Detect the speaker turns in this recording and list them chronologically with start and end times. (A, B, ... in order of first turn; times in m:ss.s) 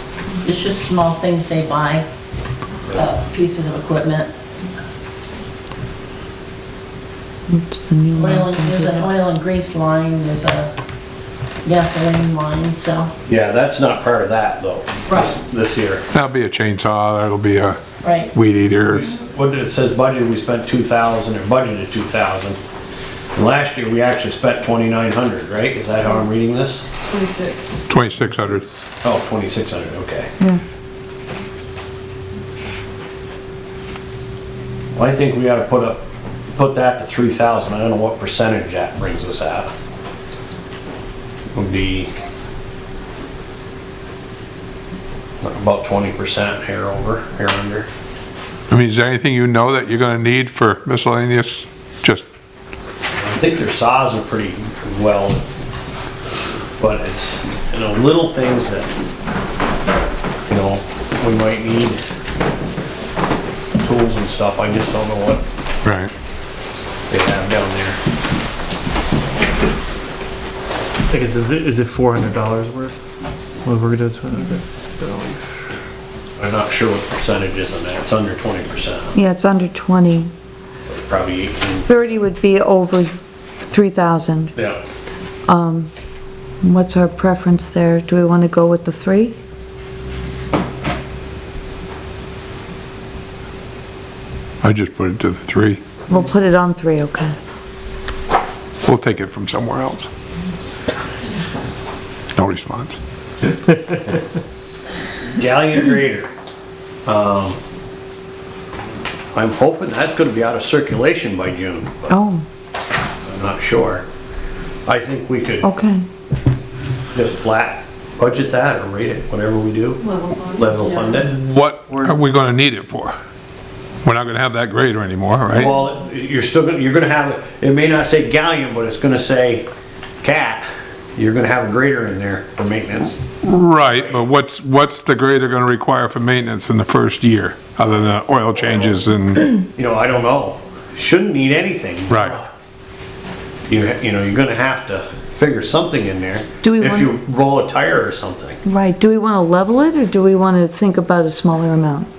0:00.4-0:02.0 A
0:02.9-0:04.3 A
0:07.5-0:09.1 B
0:08.1-0:10.7 A
0:11.6-0:13.1 A
0:13.3-0:16.0 C
0:15.1-0:15.3 A
0:16.1-0:17.8 D
0:18.0-0:18.3 A
0:18.3-0:19.1 D
0:18.9-0:22.6 C
0:23.3-0:26.8 C
0:27.9-0:28.7 D
0:29.0-0:30.3 C
0:34.9-0:39.7 C
0:41.5-0:42.1 C
0:45.4-0:47.9 C
0:48.7-0:52.2 D
0:53.1-0:55.4 C
0:56.8-0:58.9 C
1:00.5-1:02.0 C
1:03.8-1:05.4 C
1:05.8-1:06.1 D
1:07.1-1:08.0 C
1:11.1-1:13.0 E
1:13.6-1:15.6 E
1:16.4-1:19.2 C
1:19.1-1:20.3 B
1:20.8-1:21.9 C
1:21.8-1:23.1 B
1:23.6-1:24.5 B
1:24.5-1:24.8 C
1:25.5-1:25.9 B
1:26.6-1:29.4 B
1:34.6-1:35.8 D
1:36.1-1:37.4 B
1:38.8-1:40.1 D
1:42.4-1:43.0 D
1:43.7-1:43.9 E
1:45.3-1:46.3 C
1:47.0-1:47.6 C
1:49.3-1:52.2 C
1:52.1-1:52.4 B
1:53.2-1:54.0 C
1:54.8-1:55.7 C
1:55.6-1:56.0 B
1:57.1-2:00.0 C
2:00.5-2:01.4 C
2:01.3-2:03.2 D
2:01.9-2:02.2 E
2:04.0-2:05.7 D
2:05.5-2:09.7 C
2:10.2-2:13.2 C
2:13.4-2:19.5 D
2:13.9-2:14.2 C
2:18.6-2:18.9 C
2:19.7-2:22.5 C
2:22.1-2:22.4 D
2:23.7-2:28.6 C
2:26.6-2:27.1 B
2:28.6-2:32.1 B